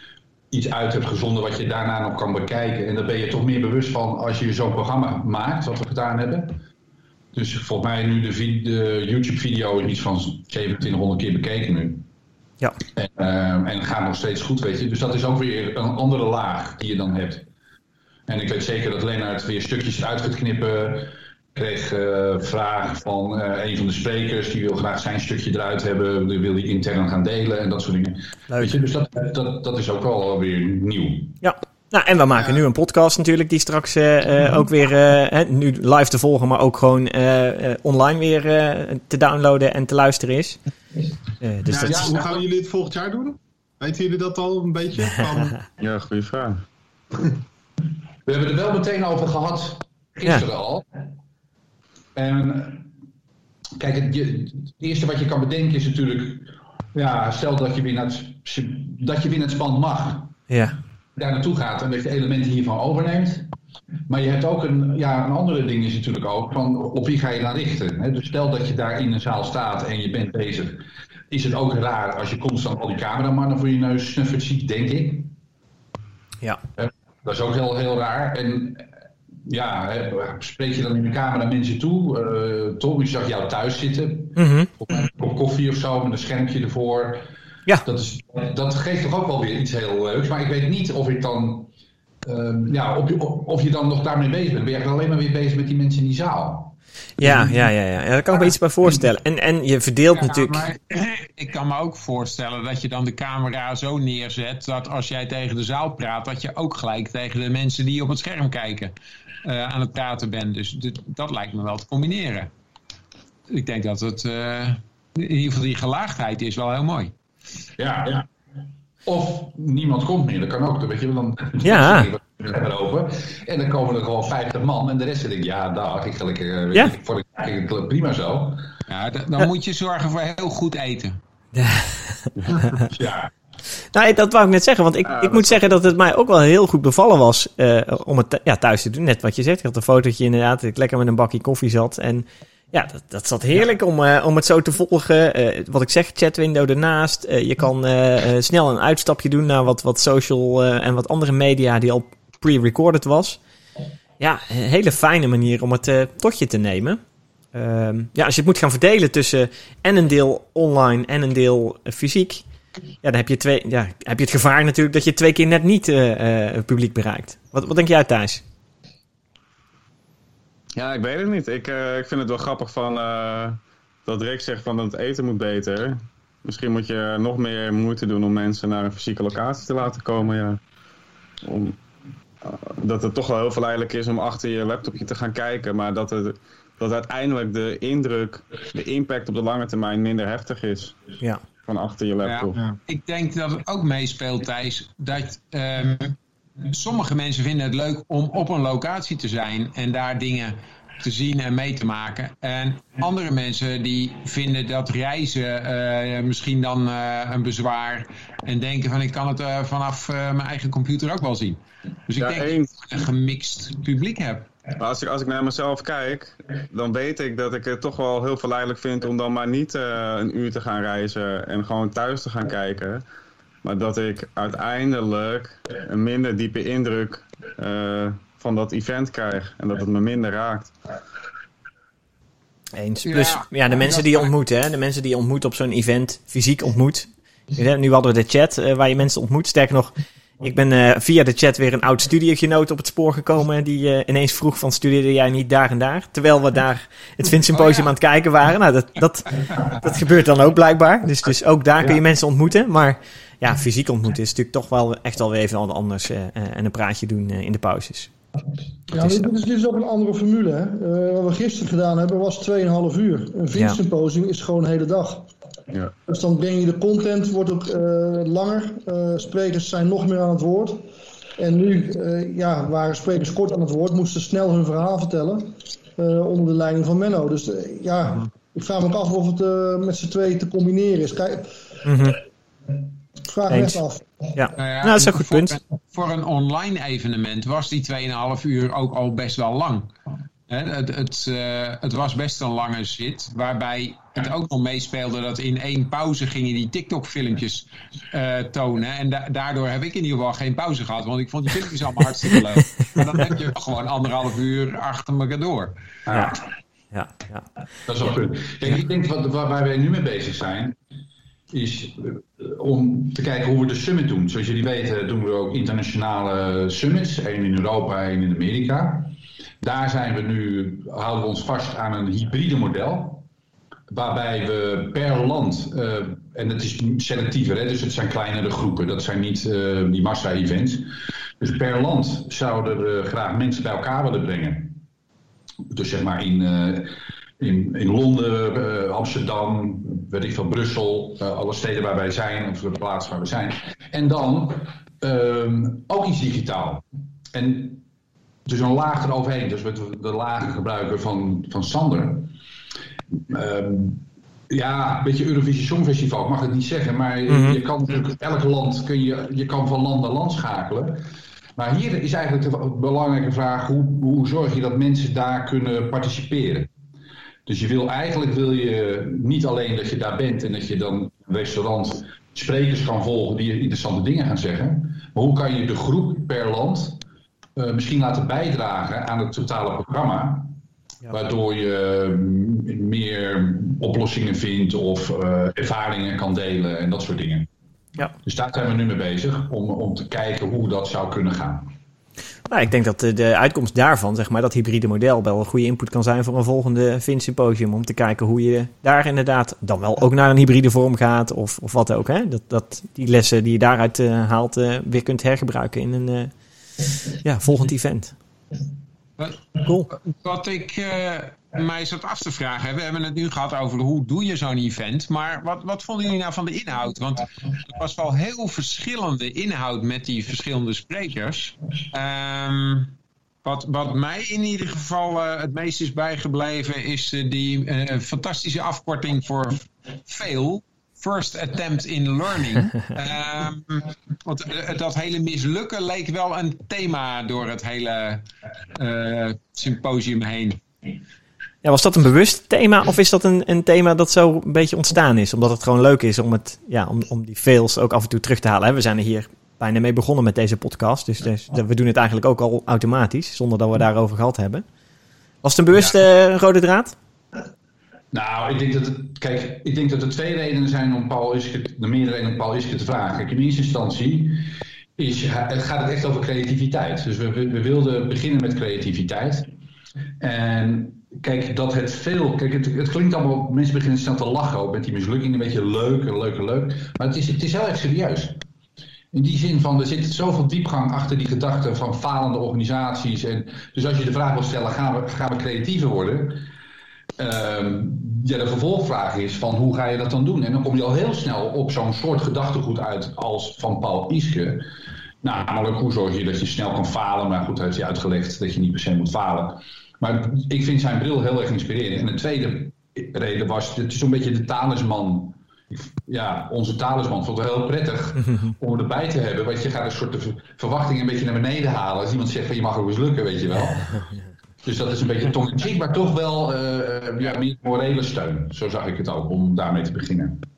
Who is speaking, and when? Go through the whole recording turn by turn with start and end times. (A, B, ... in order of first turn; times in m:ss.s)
0:00.5-0:06.6 A
0:07.3-0:12.1 A
0:13.0-0:17.5 A
0:18.3-0:31.4 A
0:28.5-0:28.8 B
0:31.4-0:40.6 B
0:41.4-0:42.1 B
0:41.7-0:45.6 C
0:41.8-0:42.4 A
0:45.8-0:46.6 D
0:48.3-0:50.9 A
0:52.2-0:52.9 A
0:53.8-1:00.4 A
1:00.5-1:00.8 B
1:01.2-1:03.5 A
1:04.1-1:15.3 A
1:16.8-1:18.9 A
1:19.5-1:27.3 A
1:24.4-1:24.7 B
1:27.8-1:31.7 A
1:32.2-1:37.5 A
1:37.2-1:40.7 B
1:40.2-1:48.9 E
1:49.4-1:52.5 E
1:53.5-1:57.1 E
1:57.8-1:58.2 A
1:59.0-2:08.7 A
2:01.6-2:02.1 B
2:08.9-2:11.2 E
2:11.6-2:12.9 B
2:12.9-2:13.3 A
2:13.9-2:33.4 B
2:15.1-2:15.6 D
2:34.2-2:37.0 B
2:37.5-2:42.4 B
2:43.0-2:48.4 B
2:50.7-3:00.6 D
3:01.4-3:01.8 D
3:02.4-3:11.0 D
3:11.7-3:12.6 D
3:12.2-3:16.2 E
3:16.7-3:34.5 E
3:32.2-3:32.7 D
3:34.8-3:43.0 D
3:43.6-3:50.7 D
3:52.8-4:18.1 B
3:53.0-3:54.3 E
4:07.5-4:07.9 E
4:18.9-4:19.3 B
4:18.9-4:25.3 F
4:26.1-4:30.8 F
4:31.4-4:41.5 F
4:41.8-4:42.2 B
4:43.3-4:44.0 F
4:43.5-4:43.8 B
4:44.4-4:45.6 B
4:44.6-4:49.9 E
4:50.5-5:05.8 E
5:06.1-5:06.4 A
5:06.9-5:07.4 B
5:07.9-5:10.8 A
5:11.5-5:23.3 A
5:23.9-5:34.8 A
5:35.7-5:47.8 A
5:48.5-5:52.3 A
5:53.3-6:01.0 A
5:57.3-5:57.6 B
6:01.6-6:06.7 A
6:07.5-6:17.0 A
6:17.6-6:20.6 A
6:21.1-6:27.5 A
6:28.2-6:31.7 A
6:32.5-6:46.3 B
6:47.2-6:48.2 B
6:49.2-7:20.6 E
6:49.6-6:49.9 B
7:21.6-7:34.6 B
7:35.4-7:37.0 B
7:38.1-7:49.5 A
7:50.2-7:58.4 A
7:59.1-8:06.4 A
8:07.2-8:14.7 A
8:15.2-8:33.9 A
8:33.9-8:34.2 B
8:34.6-8:40.4 A